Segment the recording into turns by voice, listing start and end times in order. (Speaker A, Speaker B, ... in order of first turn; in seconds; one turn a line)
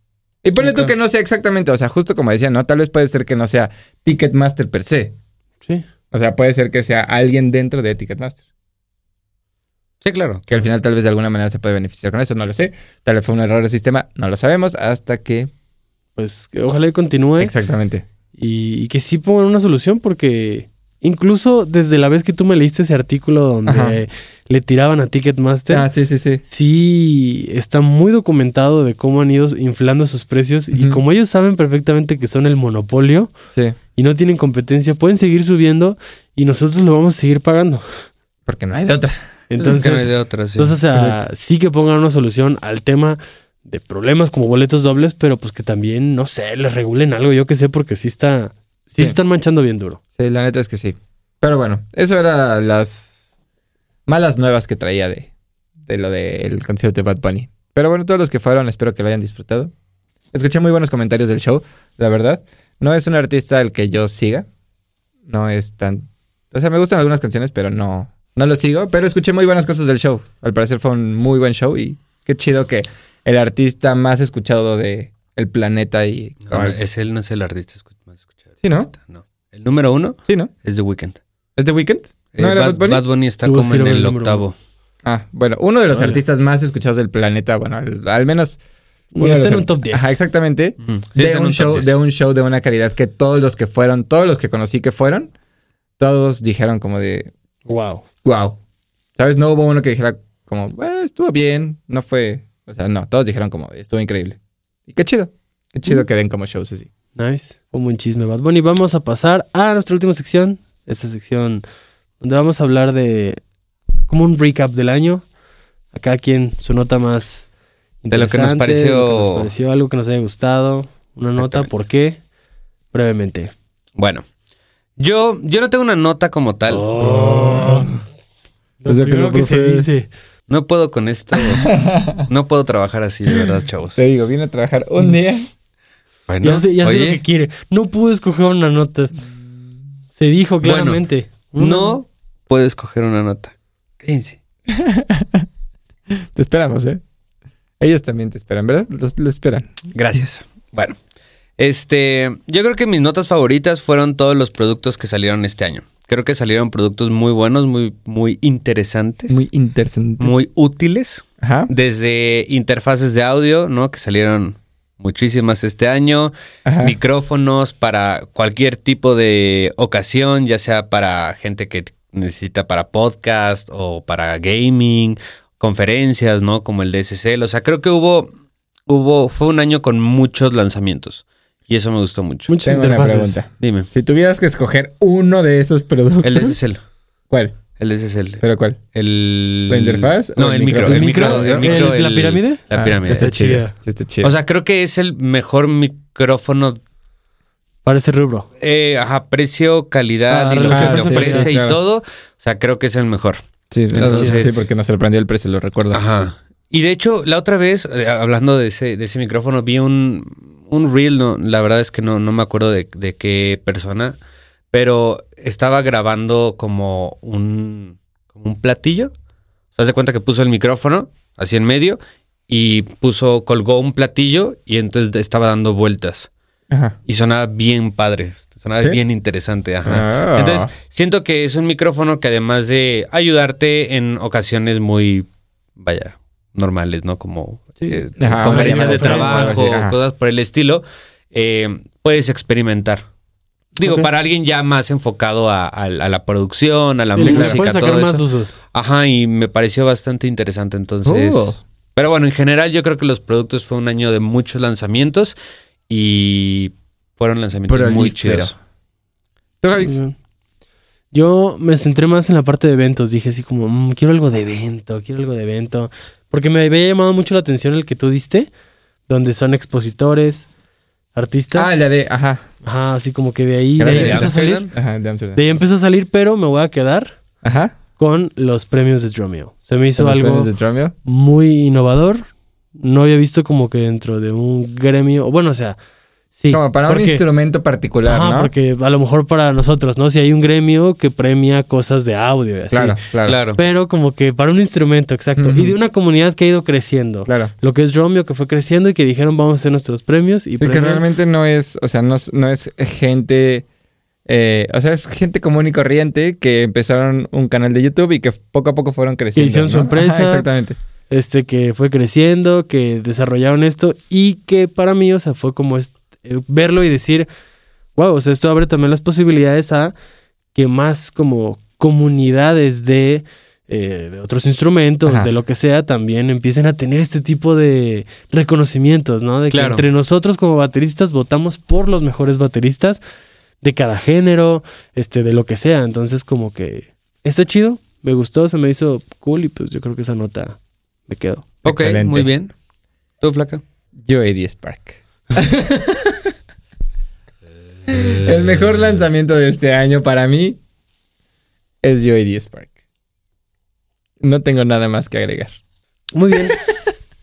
Speaker A: 0.4-5.2
Speaker B: 0.6-0.9
Speaker A: 6.1-8.4
Speaker C: 10.0-10.4
Speaker A: 10.5-15.5
Speaker B: 16.2-17.5
Speaker A: 17.4-18.1
Speaker B: 18.4-25.9
Speaker A: 23.7-24.0
Speaker A: 25.7-26.4
Speaker B: 26.5-33.3
Speaker A: 30.7-31.0
Speaker B: 34.0-37.8
Speaker A: 38.5-39.2
Speaker B: 39.5-50.0
Speaker C: 39.6-40.8
Speaker A: 40.9-41.2
Speaker A: 50.2-53.2
Speaker A: 54.1-55.3
Speaker A: 55.9-59.7
Speaker A: 60.3-64.5
Speaker A: 65.3-76.8
Speaker C: 76.4-81.2
Speaker A: 78.6-78.9
Speaker A: 81.6-83.0
Speaker C: 82.3-84.5
Speaker B: 83.5-84.5
Speaker A: 85.0-88.6
Speaker B: 85.9-86.2
Speaker B: 89.2-90.2
Speaker A: 89.2-95.3
Speaker C: 90.8-92.0
Speaker A: 96.0-97.3
Speaker B: 97.7-98.0
Speaker A: 98.2-98.6
Speaker A: 99.2-106.9
Speaker B: 107.2-111.6
Speaker B: 112.2-113.4
Speaker B: 114.1-115.2
Speaker B: 115.9-117.5
Speaker B: 118.0-122.2
Speaker C: 118.1-119.5
Speaker C: 121.4-121.7
Speaker B: 122.9-123.5
Speaker C: 124.0-124.2
Speaker C: 125.0-126.9
Speaker B: 126.7-127.9
Speaker A: 127.0-127.9
Speaker B: 128.8-130.1
Speaker A: 128.9-129.9
Speaker C: 130.5-131.7
Speaker A: 131.6-132.3
Speaker C: 132.3-134.0
Speaker A: 134.0-135.5
Speaker C: 136.3-137.2
Speaker B: 136.4-139.2
Speaker B: 140.1-142.0
Speaker C: 140.6-141.0
Speaker C: 141.6-144.4
Speaker A: 144.7-145.5
Speaker A: 146.2-147.0
Speaker A: 147.8-149.7
Speaker C: 149.9-151.0
Speaker C: 151.6-159.5
Speaker A: 159.3-160.3
Speaker C: 160.2-178.3
Speaker A: 161.4-161.7
Speaker A: 166.7-167.0
Speaker C: 178.9-182.8
Speaker B: 182.5-183.4
Speaker A: 182.6-186.6
Speaker C: 183.6-183.9
Speaker C: 186.2-186.8
Speaker A: 187.3-187.6
Speaker C: 187.8-193.3
Speaker A: 188.4-188.8
Speaker A: 189.7-191.9
Speaker B: 190.8-193.7
Speaker A: 192.7-194.3
Speaker C: 194.2-196.8
Speaker B: 197.8-198.5
Speaker C: 198.6-204.5
Speaker B: 200.3-201.6
Speaker A: 200.7-201.8
Speaker A: 203.7-206.1
Speaker B: 204.0-204.4
Speaker C: 205.9-214.2
Speaker C: 214.7-219.1
Speaker C: 219.8-226.3
Speaker A: 226.7-226.9
Speaker C: 227.1-243.0
Speaker A: 229.9-230.7
Speaker B: 237.8-239.6
Speaker A: 238.2-240.0
Speaker C: 243.8-248.2
Speaker B: 243.8-244.1
Speaker B: 247.2-248.6
Speaker A: 247.2-247.6
Speaker C: 248.7-255.3
Speaker A: 251.1-251.6
Speaker C: 255.9-258.6
Speaker A: 257.7-258.6
Speaker A: 259.6-260.0
Speaker B: 259.8-260.1
Speaker B: 261.1-268.5
Speaker B: 269.1-270.5
Speaker B: 271.1-271.8
Speaker A: 271.6-272.5
Speaker B: 272.6-274.7
Speaker A: 273.8-275.4
Speaker C: 273.8-274.7
Speaker B: 275.4-277.2
Speaker A: 277.4-277.8
Speaker B: 278.0-280.5
Speaker A: 280.0-280.9
Speaker B: 281.1-282.2
Speaker B: 282.8-285.8
Speaker B: 286.4-287.2
Speaker A: 286.5-288.5
Speaker B: 288.1-293.0
Speaker A: 292.7-293.4
Speaker C: 293.3-293.6
Speaker B: 293.6-301.1
Speaker A: 295.4-295.8
Speaker A: 297.3-297.5
Speaker A: 300.6-303.7
Speaker A: 304.3-310.8
Speaker B: 309.4-310.5
Speaker B: 311.1-317.3
Speaker B: 318.0-319.9
Speaker B: 320.5-333.0
Speaker A: 325.1-325.3
Speaker C: 329.5-329.9
Speaker B: 333.6-341.5
Speaker C: 341.6-342.5
Speaker A: 341.7-342.3
Speaker C: 343.2-343.6
Speaker A: 344.0-346.3
Speaker A: 347.9-350.6
Speaker A: 351.8-352.7
Speaker A: 354.2-355.6
Speaker B: 356.1-356.6
Speaker A: 356.4-356.9